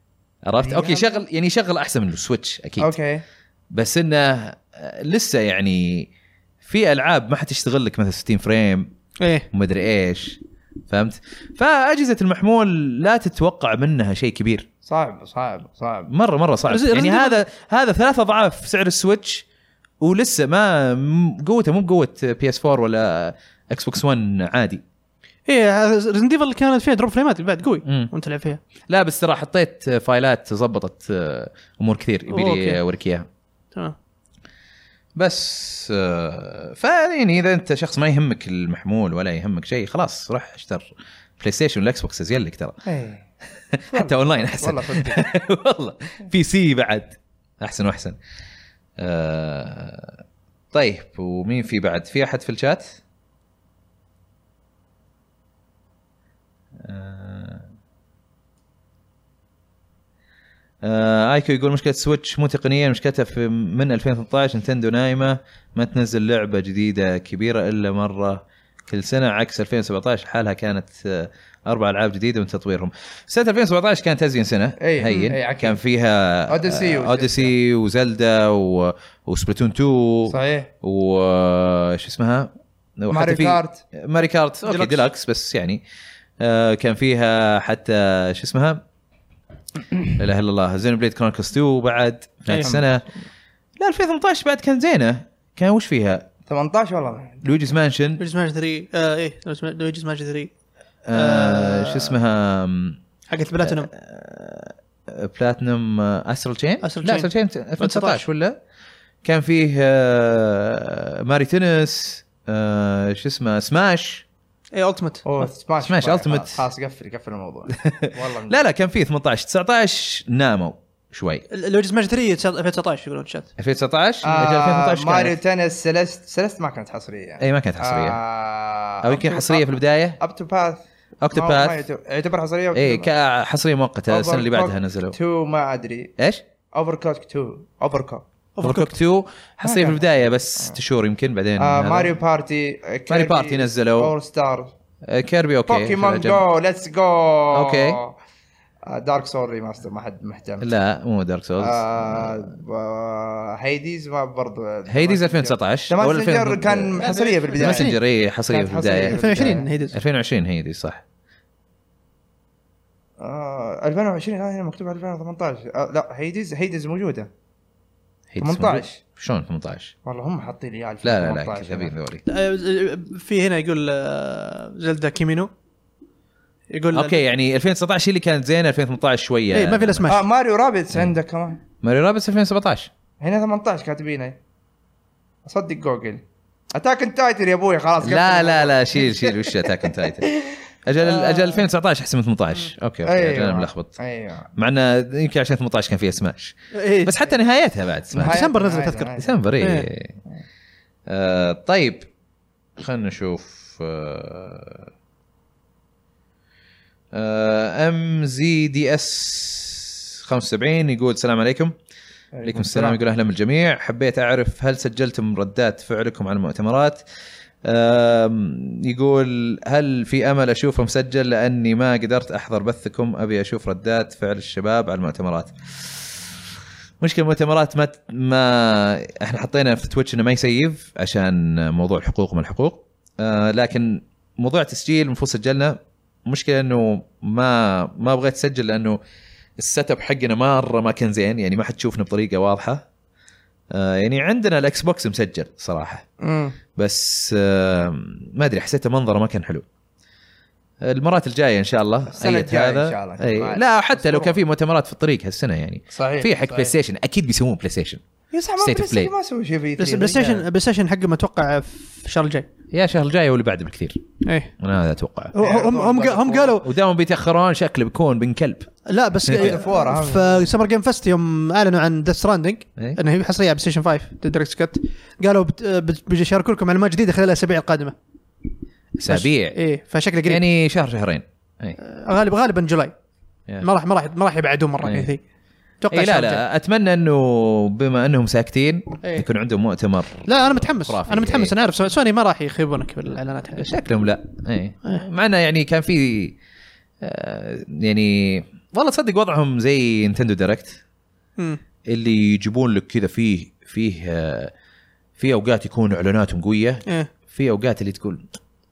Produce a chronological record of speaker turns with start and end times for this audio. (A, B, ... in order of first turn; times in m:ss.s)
0:00.4-0:02.9 A
0:00.6-0:01.2 B
0:02.8-0:03.2 B
0:03.7-0:06.1 A
0:06.6-0:08.9 A
0:09.2-0:09.5 C
0:09.5-0:14.7 A
0:14.9-0:16.1 B
0:16.1-0:19.5 A
0:16.7-0:17.4 C
0:20.0-0:24.8 A
0:25.5-0:28.6 C
0:27.8-0:28.1 A
0:28.9-0:33.3 A
0:32.3-0:32.8 C
0:35.2-0:42.8 A
0:42.8-0:43.3 B
0:43.7-0:48.2 A
0:43.9-0:45.2 B
0:49.0-0:50.2 A
0:50.7-0:53.0 A
0:56.8-0:57.7 A
1:00.8-1:25.8 A
1:14.8-1:15.8 B
1:15.1-1:15.4 C
1:16.5-1:17.5 B
1:20.3-1:20.7 B
1:23.1-1:23.8 B
1:24.6-1:25.0 C
1:26.4-1:28.8 A
1:30.2-1:33.0 A
1:32.5-1:32.8 C
1:33.8-1:36.3 A
1:36.5-1:37.4 B
1:37.4-1:38.2 A
1:38.2-1:40.5 C
1:41.1-1:43.0 A
1:41.1-1:42.1 C
1:43.3-1:43.9 C
1:43.6-1:48.6 A
1:46.8-1:48.2 C
1:49.2-1:54.2 A
1:54.7-1:55.5 C
1:55.2-1:58.6 B
1:55.8-1:56.6 A
1:57.8-2:01.4 A
2:01.5-2:03.5 C
2:03.6-2:05.4 A
2:04.2-2:10.8 B
2:07.4-2:08.2 A
2:09.0-2:10.2 A
2:11.2-2:11.8 A
2:11.3-2:13.1 B
2:12.7-2:15.2 A
2:14.1-2:16.1 B
2:16.2-2:16.4 A
2:16.7-2:18.2 B
2:18.6-2:19.0 C
2:18.6-2:22.2 A
2:19.6-2:20.8 B
2:21.6-2:24.7 B
2:23.1-2:24.1 A
2:25.1-2:26.4 A
2:25.7-2:28.2 B
2:27.5-2:28.0 A
2:28.9-2:30.7 B
2:30.6-2:32.5 A
2:31.6-2:39.7 B
2:34.9-2:41.0 A
2:37.0-2:38.0 C
2:38.9-2:40.0 C
2:43.2-2:47.3 B
2:48.3-2:49.9 A
2:48.4-2:49.0 B
2:50.0-2:51.9 B
2:51.0-2:52.2 A
2:52.3-2:55.5 C
2:56.7-2:57.2 C
2:56.9-3:00.1 A
2:59.5-3:00.2 C
3:00.1-3:01.6 B
3:01.8-3:02.9 A
3:03.2-3:04.4 B
3:05.4-3:06.2 B
3:06.7-3:11.7 B
3:08.0-3:10.3 A
3:10.9-3:13.9 A
3:13.1-3:14.5 B
3:14.6-3:18.5 A
3:16.7-3:17.3 C
3:18.1-3:19.4 B
3:18.2-3:19.9 C
3:19.1-3:20.2 A
3:21.1-3:22.1 A
3:22.8-3:24.9 A
3:27.1-3:31.8 A
3:32.3-3:33.0 B
3:32.4-3:37.0 A
3:37.6-3:46.2 A
3:47.0-3:59.0 A
3:59.6-4:02.8 A
4:03.7-4:06.0 A
4:06.2-4:06.6 B
4:06.8-4:09.7 A
4:10.8-4:18.0 A
4:12.1-4:14.4 B
4:15.9-4:16.7 B
4:18.3-4:20.4 B
4:18.6-4:19.1 A
4:19.8-4:22.5 C
4:22.7-4:24.0 A
4:24.2-4:24.5 C
4:24.6-4:25.3 A
4:25.3-4:26.6 C
4:25.4-4:26.6 B
4:26.6-4:28.7 A
4:28.9-4:38.0 C
4:29.3-4:30.5 B
4:39.0-4:39.6 A
4:39.1-4:40.4 C
4:40.3-4:41.8 A
4:41.8-4:42.9 C
4:43.6-4:45.2 C
4:44.8-4:45.1 A
4:45.8-4:46.4 C
4:45.9-4:51.5 A
4:50.3-4:53.8 C
4:53.6-4:56.4 A
4:57.0-5:00.8 A
5:01.9-5:04.5 A
5:05.2-5:08.3 A